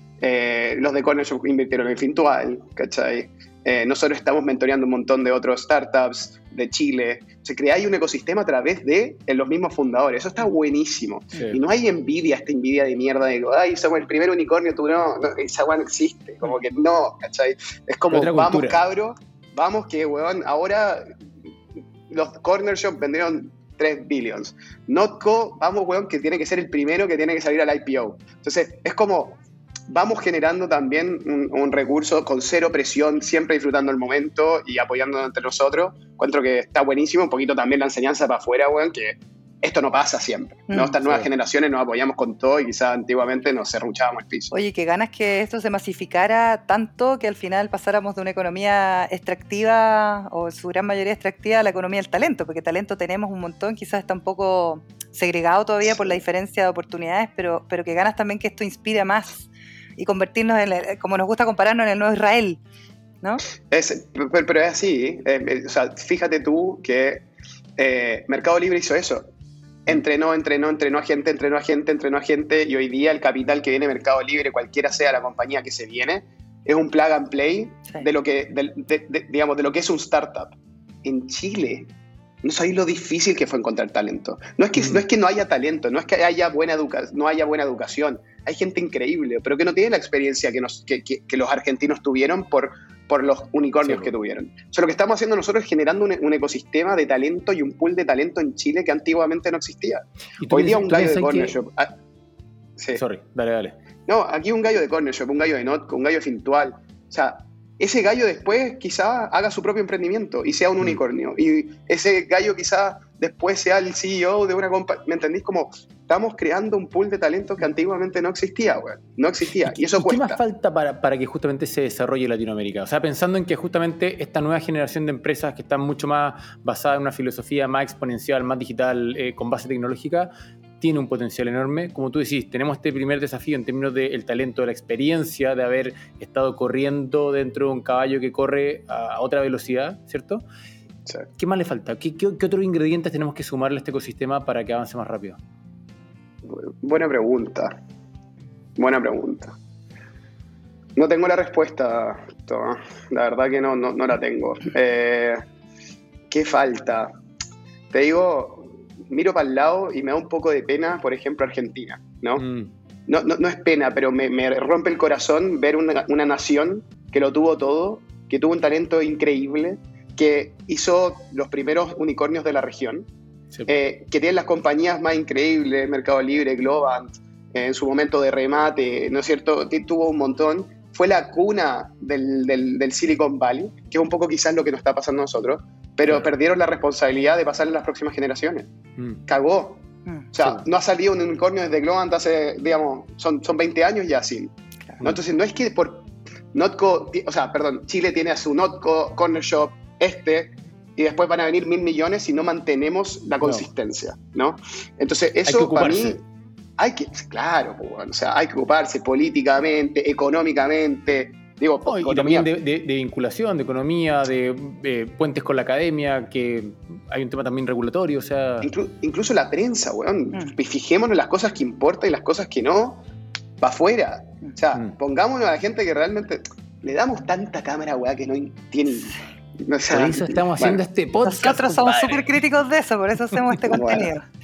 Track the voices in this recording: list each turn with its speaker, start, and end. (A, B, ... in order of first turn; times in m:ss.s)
0:00.2-0:21.1 A
0:18.1-0:18.8 B
0:22.1-0:44.6 A
0:40.7-0:41.0 C
0:44.5-1:02.6 C
1:03.7-1:07.3 A
1:07.8-1:09.3 A
1:09.9-1:21.9 A
1:22.4-1:41.9 A
1:24.8-1:25.0 B
1:33.8-1:34.1 B
1:40.4-1:41.5 B
1:43.0-1:43.8 B
1:44.1-2:00.4 A
1:59.7-2:20.4 B
2:21.4-2:25.4 B
2:26.4-2:27.8 A
2:28.8-2:29.6 A
2:31.0-2:35.4 A
2:36.3-2:37.1 A
2:37.9-2:42.5 A
2:42.4-2:42.7 B
2:43.1-2:53.1 A
2:53.7-3:08.7 A
3:09.0-3:09.2 B
3:09.3-3:26.2 A
3:25.4-3:26.2 B
3:26.8-3:32.5 A
3:31.9-3:38.7 B
3:38.6-3:43.0 A
3:43.6-3:50.8 A
3:49.9-3:52.3 B
3:51.2-3:54.3 C
3:53.7-3:54.1 A